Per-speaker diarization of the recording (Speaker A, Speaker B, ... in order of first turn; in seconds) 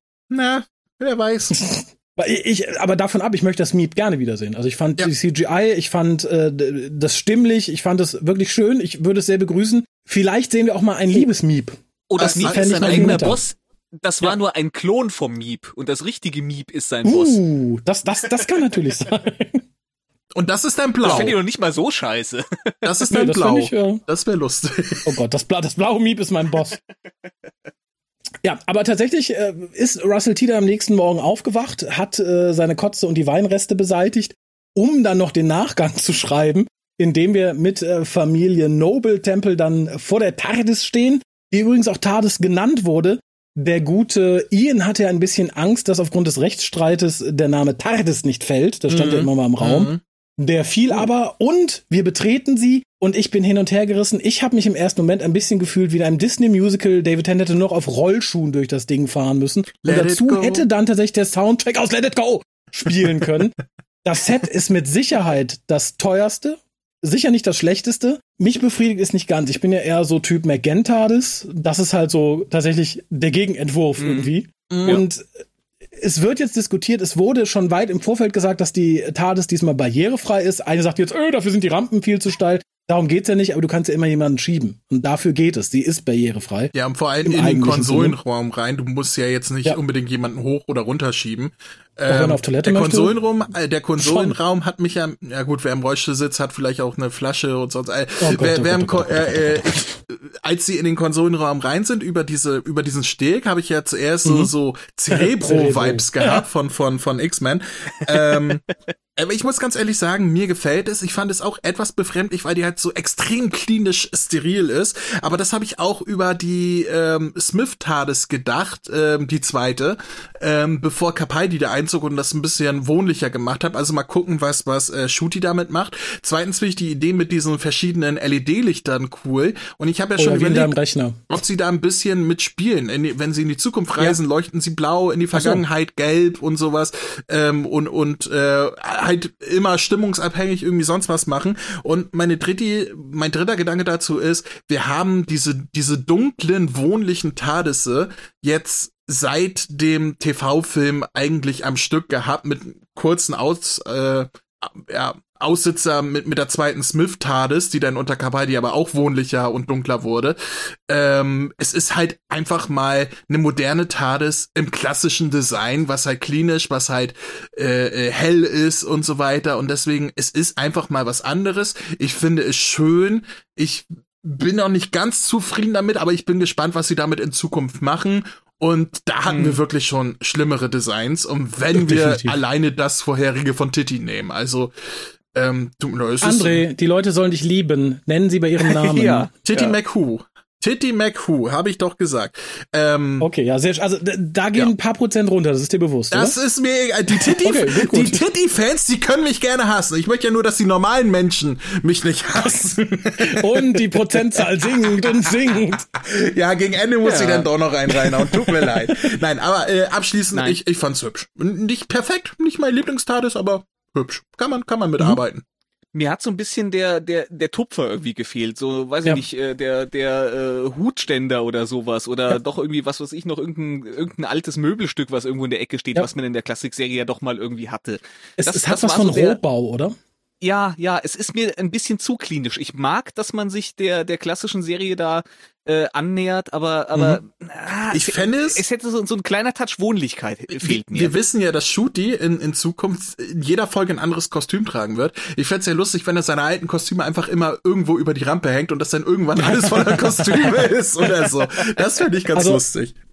Speaker A: 0.3-1.6, 12.2-13.3, 20.3-21.4, 22.8-25.2, 48.9-50.0, 59.8-60.6, 74.7-75.0, 86.7-108.6, 109.2-130.8, 131.3-184.7, 185.3-186.6, 189.4-193.3, 196.1-215.4, 237.9-238.6, 240.5-252.9
Speaker B: 1.5-13.4, 17.0-19.6, 21.0-21.3, 23.1-24.0, 25.1-26.8, 28.4-75.4, 76.0-88.2, 92.1-93.1, 94.0-94.3, 98.2-99.7, 104.2-104.5, 105.1-106.4, 130.2-131.2, 135.3-135.6, 181.7-182.4, 186.2-189.3, 193.2-196.3, 197.2-198.2, 203.2-205.8, 228.4-229.9, 249.4-250.6, 252.3-252.6
Speaker C: 12.1-17.4, 21.0-23.1, 74.0-74.3, 179.3-179.6, 188.6-189.7, 207.0-207.5, 210.3-210.6, 215.9-229.4, 230.4-241.1